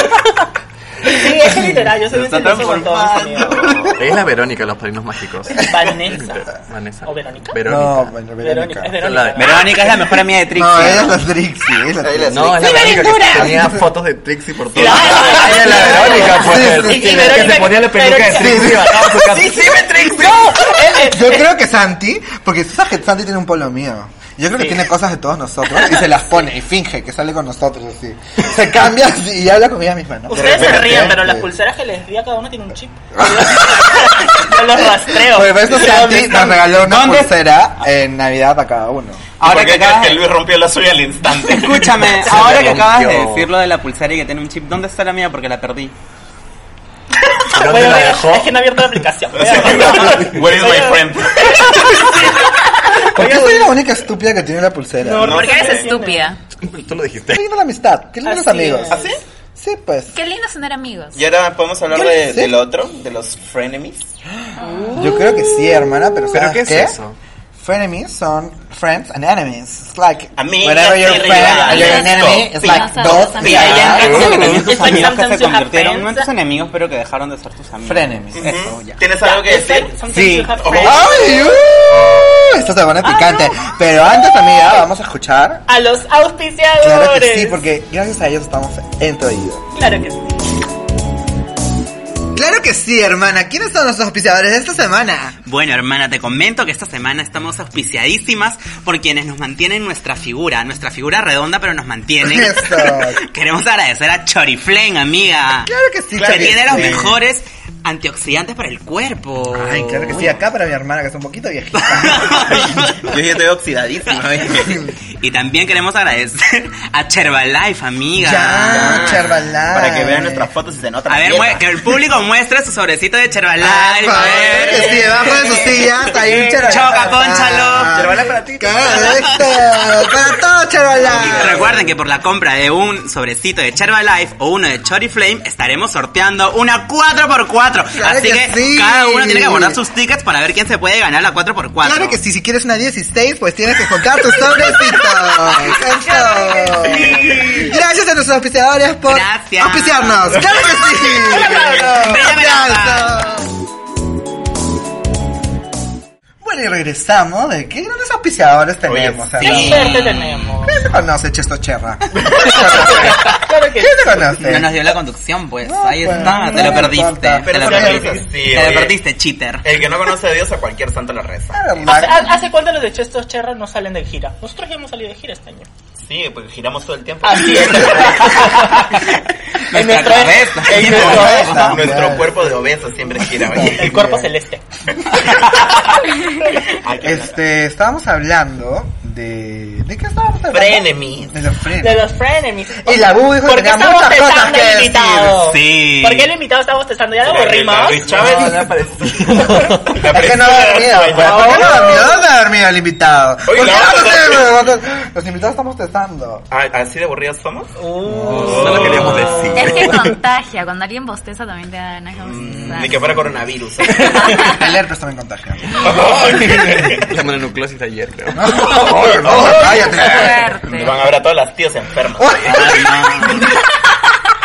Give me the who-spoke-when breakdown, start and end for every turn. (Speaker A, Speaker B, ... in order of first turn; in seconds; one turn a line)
Speaker A: 1.0-3.7
Speaker B: 1.5-1.8
Speaker C: 2.1-3.6
Speaker D: 3.5-3.9
Speaker B: 3.6-3.9
Speaker E: 4.0-8.1
Speaker A: 5.6-6.5
Speaker A: 7.0-7.6
Speaker B: 7.6-8.9
Speaker A: 8.4-9.8
Speaker E: 9.0-9.6
Speaker C: 9.3-11.2
Speaker B: 10.5-13.8
Speaker D: 12.0-13.3
Speaker E: 12.3-19.8
Speaker A: 12.7-13.3
Speaker A: 14.7-19.2
Speaker B: 14.9-17.6
Speaker B: 18.2-19.3
Speaker D: 19.2-20.5
Speaker A: 20.0-21.4
Speaker B: 20.0-31.5
Speaker A: 24.5-24.9
Speaker A: 30.3-36.7
Speaker B: 33.1-39.2
Speaker C: 36.8-37.4
Speaker C: 39.4-40.2
Speaker D: 39.4-42.2
Speaker C: 41.4-45.9
Speaker E: 42.2-43.5
Speaker E: 47.5-48.6
Speaker A: 47.5-53.8
Speaker D: 49.4-52.3
Speaker E: 50.1-50.3
Speaker B: 53.1-55.4
Speaker A: 55.0-56.3
Speaker D: 55.2-55.9
Speaker F: 55.3-56.4
Speaker E: 56.6-57.4
Speaker B: 57.3-60.2
Speaker A: 58.2-59.2
Speaker D: 58.9-59.2
Speaker F: 60.1-61.2
Speaker D: 61.1-64.1
Speaker B: 61.9-62.5
Speaker F: 64.6-65.0
Speaker B: 64.9-67.0
Speaker E: 66.2-67.2
Speaker B: 67.5-74.3
Speaker D: 70.4-74.0
Speaker C: 71.0-71.6
Speaker F: 71.5-74.6
Speaker C: 73.4-79.0
Speaker A: 73.9-76.3
Speaker E: 73.9-75.0
Speaker B: 77.8-78.7
Speaker D: 78.3-80.0
Speaker A: 79.2-81.2
Speaker B: 80.1-85.7
Speaker D: 80.5-81.1
Speaker F: 83.1-83.5
Speaker A: 85.7-87.6
Speaker B: 86.8-89.6
Speaker A: 89.7-90.4
Speaker B: 92.3-95.4
Speaker C: 95.5-110.3
Speaker B: 102.2-103.2
Speaker B: 105.7-107.2
Speaker D: 106.2-107.1
Speaker B: 109.5-112.8
Speaker C: 111.8-113.1
Speaker D: 113.0-114.8
Speaker C: 114.2-119.2
Speaker B: 118.2-120.5
Speaker D: 118.7-122.0
Speaker C: 121.1-125.5
Speaker B: 123.6-131.7
Speaker D: 124.1-127.0
Speaker C: 126.6-128.1
Speaker D: 127.9-129.6
Speaker C: 128.9-129.3
Speaker D: 130.9-131.9
Speaker C: 131.1-142.2
Speaker B: 137.9-139.8
Speaker B: 141.8-153.5
Speaker A: 146.9-147.6
Speaker D: 146.9-147.5
Speaker C: 149.1-150.5
Speaker C: 151.4-153.2
Speaker B: 156.4-160.0
Speaker D: 158.8-160.0
Speaker A: 159.4-160.8
Speaker C: 159.4-160.5
Speaker B: 160.7-164.8
Speaker D: 162.3-162.7
Speaker A: 162.5-164.3
Speaker C: 164.4-169.7
Speaker B: 165.6-168.2
Speaker A: 166.2-166.6
Speaker D: 166.5-166.8
Speaker D: 167.4-168.9
Speaker D: 169.6-171.9
Speaker B: 171.5-172.3
Speaker A: 171.9-175.7
Speaker D: 176.0-178.7
Speaker A: 177.2-179.1
Speaker C: 178.3-179.0
Speaker C: 179.7-181.8
Speaker A: 179.7-181.7
Speaker B: 180.8-182.5
Speaker D: 180.8-184.1
Speaker B: 183.2-184.3
Speaker A: 183.6-184.6
Speaker D: 185.0-185.5
Speaker D: 186.7-187.3
Speaker B: 187.0-192.1
Speaker D: 190.5-191.4
Speaker A: 191.8-199.9
Speaker B: 192.8-195.5
Speaker C: 195.5-195.9
Speaker D: 195.7-196.2
Speaker D: 197.2-198.7
Speaker B: 198.2-198.8
Speaker E: 198.2-199.8
Speaker D: 199.9-202.0
Speaker B: 200.1-206.5
Speaker A: 201.1-202.0
Speaker D: 203.4-204.5
Speaker D: 206.5-207.7
Speaker A: 207.8-209.7
Speaker E: 208.2-210.2
Speaker B: 208.2-208.5
Speaker D: 208.3-209.3
Speaker F: 209.5-213.1
Speaker D: 212.2-214.5
Speaker B: 212.5-213.0
Speaker F: 214.0-214.7
Speaker B: 214.3-216.0
Speaker D: 215.8-217.1
Speaker E: 216.5-218.6
Speaker B: 218.3-220.5
Speaker D: 219.0-223.4
Speaker F: 219.6-221.0
Speaker B: 222.2-222.8
Speaker C: 222.4-223.4